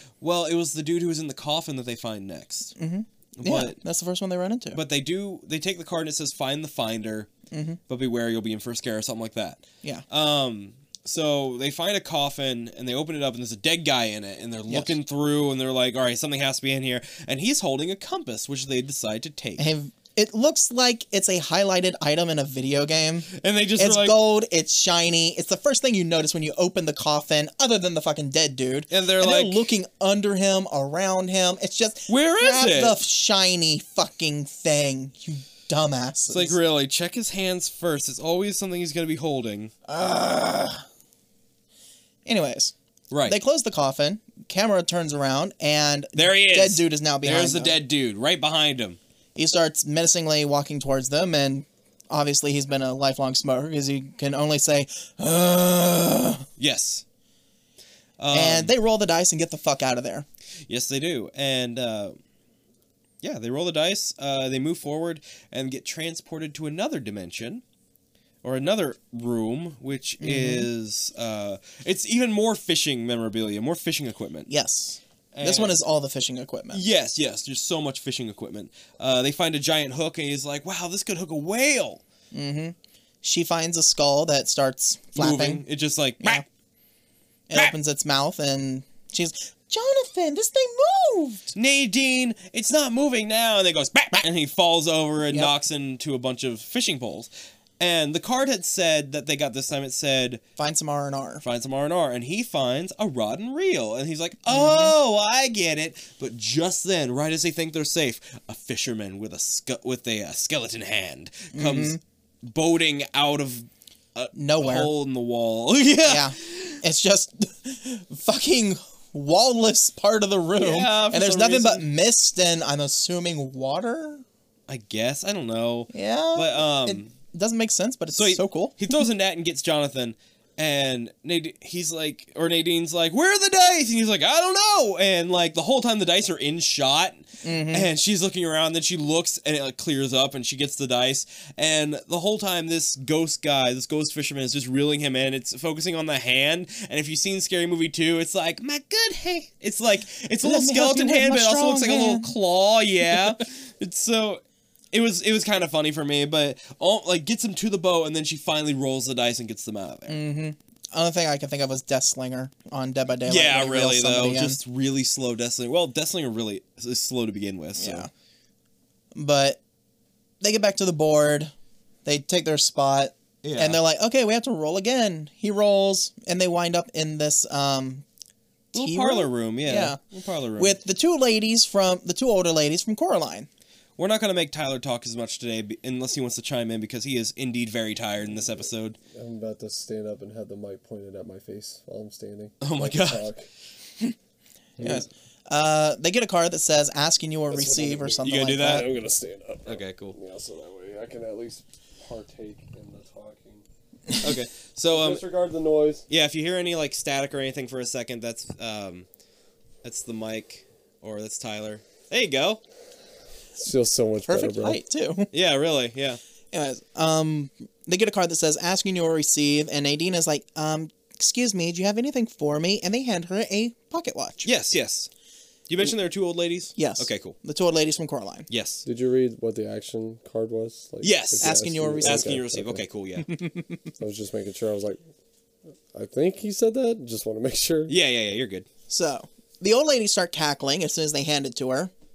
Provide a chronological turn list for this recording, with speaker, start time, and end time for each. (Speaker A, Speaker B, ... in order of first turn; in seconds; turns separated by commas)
Speaker A: 0.2-2.7, Speaker B: 2.8-4.8, Speaker A: 3.4-3.8, Speaker A: 4.7-7.3, Speaker B: 7.5-7.8, Speaker A: 7.9-19.7, Speaker B: 14.7-15.0, Speaker B: 19.6-36.6, Speaker A: 23.3-24.2, Speaker A: 28.9-29.7, Speaker A: 32.1-33.0, Speaker A: 36.3-39.7, Speaker B: 39.9-40.8, Speaker B: 42.3-42.7, Speaker A: 43.1-43.4, Speaker B: 43.3-47.8, Speaker A: 46.2-49.0, Speaker B: 49.4-56.5, Speaker A: 56.6-57.0, Speaker A: 58.2-58.7, Speaker B: 58.3-60.3, Speaker A: 60.7-62.2, Speaker A: 63.2-67.6, Speaker A: 68.4-74.5, Speaker B: 70.2-70.7, Speaker B: 74.5-76.8, Speaker A: 75.3-75.8, Speaker A: 76.7-82.0, Speaker B: 82.3-85.6, Speaker A: 85.2-86.4, Speaker B: 87.5-91.6, Speaker A: 91.5-100.4, Speaker B: 100.6-101.4, Speaker A: 101.4-116.8, Speaker B: 104.5-104.9, Speaker B: 111.5-112.0, Speaker B: 114.3-114.9, Speaker B: 116.1-124.2, Speaker A: 120.6-121.9, Speaker A: 124.7-127.1, Speaker B: 125.9-128.8, Speaker A: 128.2-154.4, Speaker B: 137.4-137.9, Speaker B: 150.4-152.3, Speaker A: 154.9-160.2, Speaker B: 160.1-164.6, Speaker A: 163.3-168.1, Speaker B: 167.8-168.1, Speaker B: 169.2-169.6, Speaker B: 170.4-171.5, Speaker B: 172.1-178.1, Speaker A: 173.4-173.8, Speaker A: 178.7-180.8, Speaker B: 178.8-180.0, Speaker B: 180.6-183.5, Speaker A: 184.0-189.0, Speaker C: 189.1-193.5, Speaker A: 192.6-193.3, Speaker C: 194.8-195.1, Speaker B: 194.8-198.8, Speaker C: 197.5-203.7, Speaker A: 198.2-198.9, Speaker A: 199.7-200.2, Speaker A: 204.2-205.2, Speaker C: 204.9-206.1, Speaker A: 206.1-209.1, Speaker A: 209.8-212.6, Speaker C: 213.6-214.8, Speaker B: 214.3-215.3, Speaker A: 215.3-216.2, Speaker B: 216.5-224.5, Speaker A: 224.4-225.1, Speaker A: 225.7-227.4, Speaker B: 226.8-228.5, Speaker A: 228.5-228.8, Speaker C: 228.8-232.8, Speaker A: 231.0-231.5, Speaker B: 231.4-232.3, Speaker A: 232.0-233.3, Speaker B: 233.2-233.8, Speaker C: 234.0-235.0, Speaker C: 235.9-237.9, Speaker A: 237.9-238.7, Speaker B: 238.9-241.9